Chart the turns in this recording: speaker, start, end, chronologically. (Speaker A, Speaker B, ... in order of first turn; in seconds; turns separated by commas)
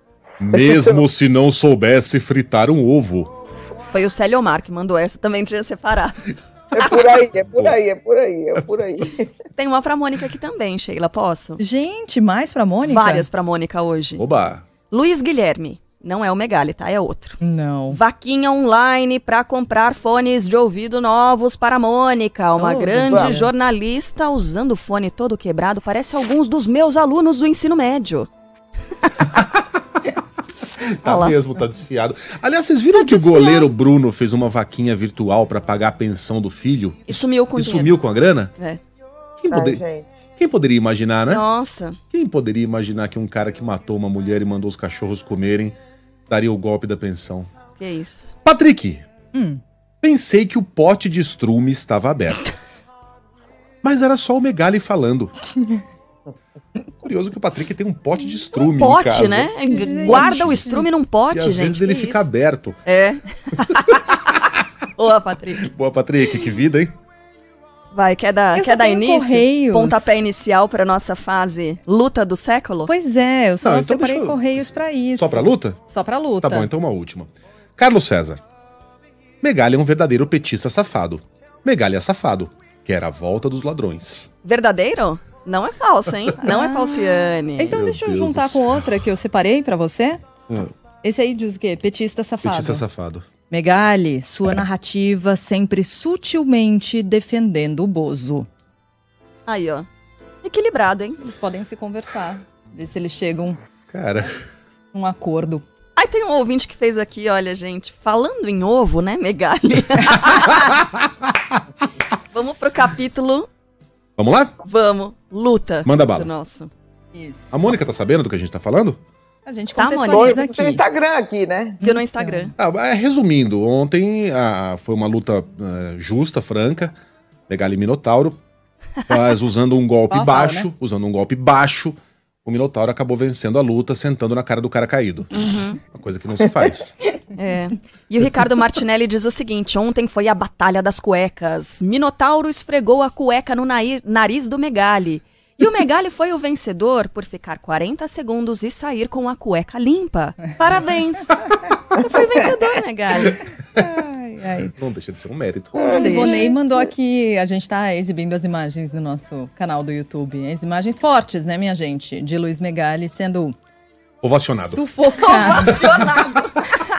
Speaker A: 0.4-3.3, Speaker B: 0.6-0.8, Speaker C: 3.9-6.2, Speaker B: 6.7-9.3, Speaker C: 9.6-11.6, Speaker D: 11.6-13.3, Speaker C: 12.8-14.2, Speaker A: 14.2-14.7, Speaker C: 14.9-28.3, Speaker D: 17.4-18.0, Speaker D: 22.6-23.5, Speaker B: 23.0-23.4, Speaker A: 29.2-29.6, Speaker A: 30.8-38.5, Speaker C: 31.0-31.4, Speaker C: 32.9-33.7, Speaker C: 37.1-38.0, Speaker A: 39.4-39.8, Speaker B: 39.5-40.1, Speaker A: 40.4-41.4, Speaker C: 41.3-42.0, Speaker A: 42.1-45.8, Speaker A: 46.3-47.5, Speaker C: 47.8-48.3, Speaker A: 48.5-49.0, Speaker D: 49.3-49.6, Speaker A: 50.0-52.5, Speaker A: 53.8-55.3, Speaker A: 57.0-59.5, Speaker C: 58.5-62.3, Speaker D: 59.7-60.9, Speaker B: 59.8-60.3, Speaker A: 61.3-62.8, Speaker C: 62.9-65.6, Speaker A: 63.7-64.0, Speaker A: 65.6-66.9, Speaker C: 67.9-72.9, Speaker D: 68.5-70.2, Speaker D: 72.9-76.7, Speaker A: 73.6-75.8, Speaker A: 76.4-78.4, Speaker A: 79.4-84.3, Speaker C: 84.4-87.8, Speaker D: 86.4-90.2, Speaker A: 87.7-89.0, Speaker D: 91.0-92.8, Speaker A: 92.4-93.3, Speaker D: 93.5-98.5, Speaker C: 99.5-99.9, Speaker C: 100.4-101.2, Speaker D: 101.2-103.6, Speaker A: 103.9-104.4, Speaker D: 104.9-105.7, Speaker C: 106.0-110.8, Speaker A: 110.7-111.0, Speaker C: 112.3-113.5, Speaker A: 114.2-114.5, Speaker C: 114.6-116.7, Speaker A: 115.8-116.3, Speaker D: 117.2-117.7, Speaker A: 117.5-119.0, Speaker D: 119.5-120.8, Speaker C: 119.8-120.4, Speaker B: 120.0-121.8, Speaker D: 121.8-122.5, Speaker C: 121.8-122.5, Speaker A: 122.6-127.0, Speaker A: 127.5-128.4, Speaker A: 129.1-137.0, Speaker D: 130.1-130.7, Speaker C: 135.3-135.8, Speaker C: 137.3-153.4, Speaker D: 153.7-154.7, Speaker A: 154.8-155.9, Speaker B: 155.8-156.5, Speaker D: 155.8-163.6, Speaker C: 155.9-156.6, Speaker A: 164.2-164.8, Speaker D: 164.6-166.2, Speaker C: 165.1-166.8